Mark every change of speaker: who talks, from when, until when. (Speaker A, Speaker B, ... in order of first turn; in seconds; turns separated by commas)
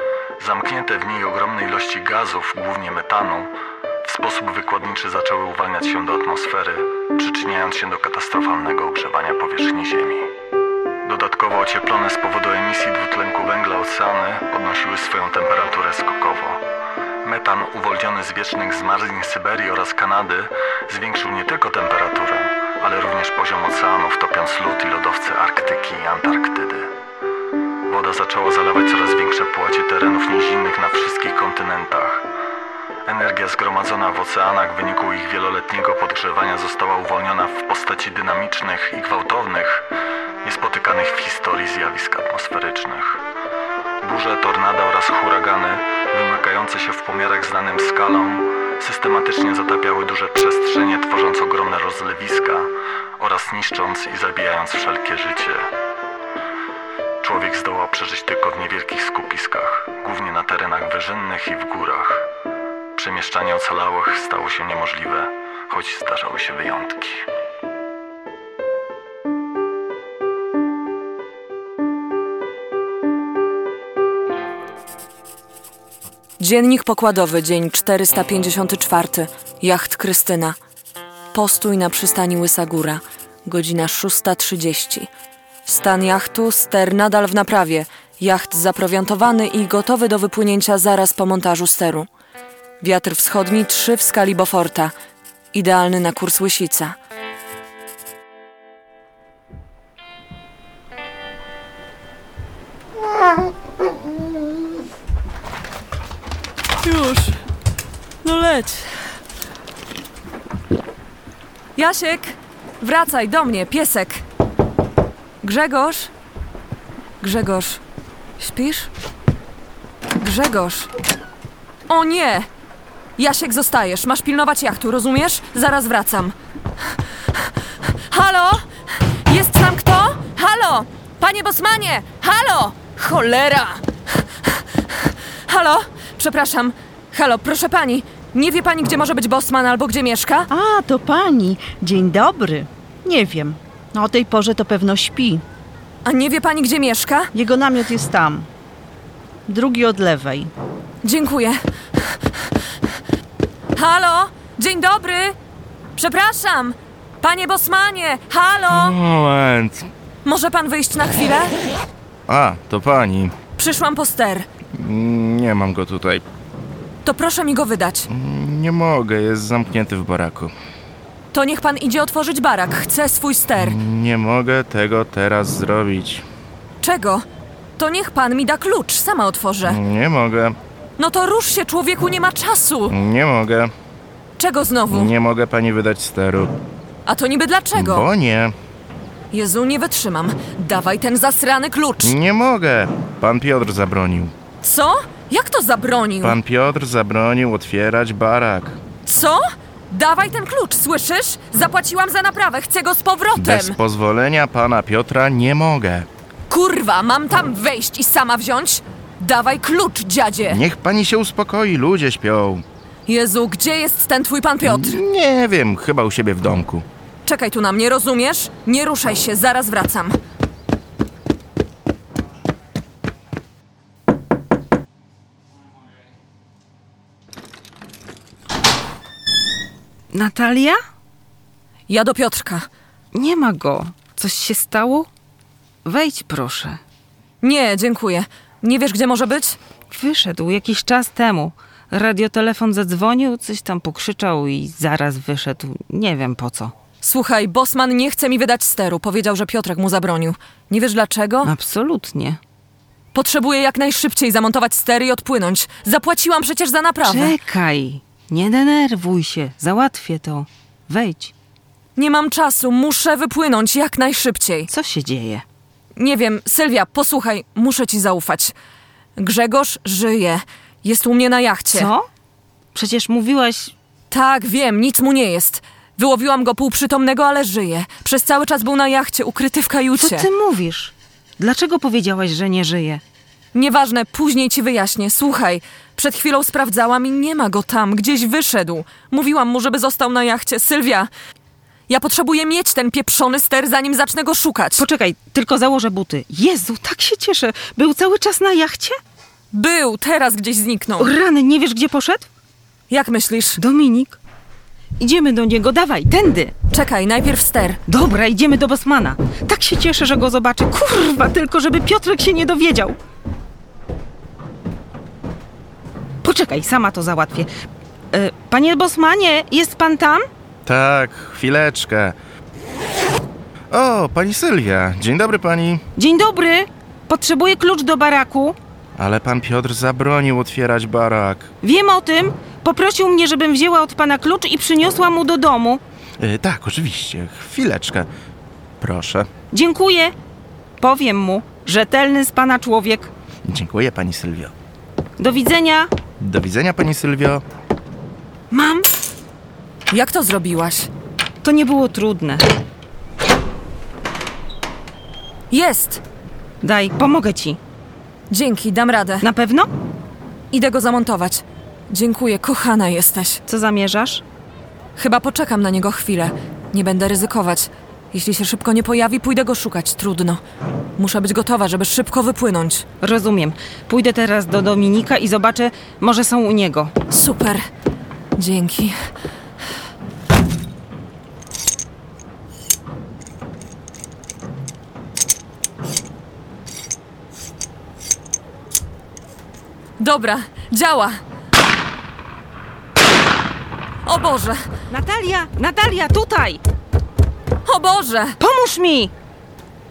Speaker A: 0.4-3.5, Speaker A: 4.0-10.3, Speaker A: 11.1-16.6, Speaker A: 17.2-26.9, Speaker A: 27.9-32.3, Speaker A: 33.1-39.9, Speaker A: 40.4-43.2, Speaker A: 44.0-55.6, Speaker A: 57.2-62.3, Speaker A: 63.0-67.2, Speaker B: 76.4-80.6, Speaker B: 81.3-85.1, Speaker B: 85.7-92.1, Speaker B: 92.8-94.9, Speaker B: 95.5-97.0, Speaker B: 106.8-107.4, Speaker B: 108.2-109.1, Speaker B: 111.8-114.2, Speaker B: 115.4-116.1, Speaker B: 117.2-117.8, Speaker B: 118.4-118.9, Speaker B: 120.2-120.9, Speaker B: 121.9-122.5, Speaker B: 123.2-126.3, Speaker B: 127.8-140.5, Speaker C: 140.5-145.4, Speaker B: 146.1-147.3, Speaker C: 147.3-148.5, Speaker C: 149.5-150.5, Speaker B: 151.0-151.6, Speaker B: 153.8-155.3, Speaker B: 155.9-159.0, Speaker D: 158.7-159.9, Speaker B: 160.2-161.5, Speaker D: 162.3-163.3, Speaker B: 163.6-164.5, Speaker D: 164.7-166.2, Speaker B: 167.0-168.1, Speaker D: 168.1-170.5, Speaker B: 171.3-173.8, Speaker D: 173.6-176.2, Speaker B: 176.8-177.2, Speaker B: 177.8-179.8, Speaker D: 179.7-180.6, Speaker B: 181.0-182.9, Speaker D: 182.9-183.7, Speaker B: 184.4-185.1, Speaker D: 184.9-186.5, Speaker B: 187.1-188.1, Speaker D: 187.8-188.5, Speaker B: 189.3-192.2, Speaker D: 192.0-194.3, Speaker B: 194.6-196.4, Speaker D: 196.2-198.8, Speaker B: 199.1-203.8, Speaker D: 203.3-206.1, Speaker B: 206.5-210.6, Speaker D: 210.5-212.6, Speaker B: 213.1-215.0, Speaker D: 214.6-216.8, Speaker B: 217.2-220.2, Speaker E: 230.1-230.8, Speaker B: 231.9-232.7, Speaker E: 233.1-235.1, Speaker E: 235.8-236.8, Speaker B: 237.4-239.6, Speaker E: 239.9-246.7, Speaker B: 247.0-251.5, Speaker E: 251.4-252.4, Speaker B: 253.1-257.4, Speaker E: 257.1-261.3, Speaker B: 262.0-264.7, Speaker E: 264.7-265.4, Speaker B: 266.0-268.5, Speaker B: 269.2-271.9, Speaker E: 271.7-272.1, Speaker E: 272.7-273.7, Speaker B: 274.1-280.3, Speaker E: 280.0-283.0, Speaker B: 283.5-291.1, Speaker B: 291.9-294.9, Speaker E: 294.8-299.0, Speaker B: 299.5-301.1, Speaker E: 301.0-302.3, Speaker B: 302.9-303.6, Speaker E: 303.6-304.2, Speaker E: 305.0-306.5, Speaker B: 306.7-307.8, Speaker E: 307.9-313.0, Speaker E: 316.2-317.5, Speaker E: 318.1-320.3, Speaker D: 320.7-322.2, Speaker D: 323.7-325.8, Speaker E: 326.0-328.6, Speaker D: 329.0-331.5, Speaker E: 331.6-335.8, Speaker D: 336.2-338.1, Speaker D: 338.8-339.3, Speaker E: 339.5-340.1, Speaker E: 340.8-343.1, Speaker D: 343.5-344.5, Speaker E: 345.2-345.9, Speaker D: 346.2-347.4, Speaker B: 348.5-348.9, Speaker B: 349.9-350.9, Speaker E: 351.4-352.5, Speaker B: 355.5-356.0, Speaker E: 356.6-357.6, Speaker B: 358.3-359.3, Speaker E: 359.2-359.7, Speaker B: 360.5-363.4, Speaker E: 363.5-364.2, Speaker B: 365.0-370.4, Speaker B: 371.0-372.9, Speaker E: 373.0-376.9, Speaker B: 377.1-377.6, Speaker B: 378.4-378.9, Speaker B: 390.0-391.2, Speaker B: 394.1-394.6, Speaker E: 394.9-396.6, Speaker B: 397.6-398.4, Speaker E: 398.4-399.1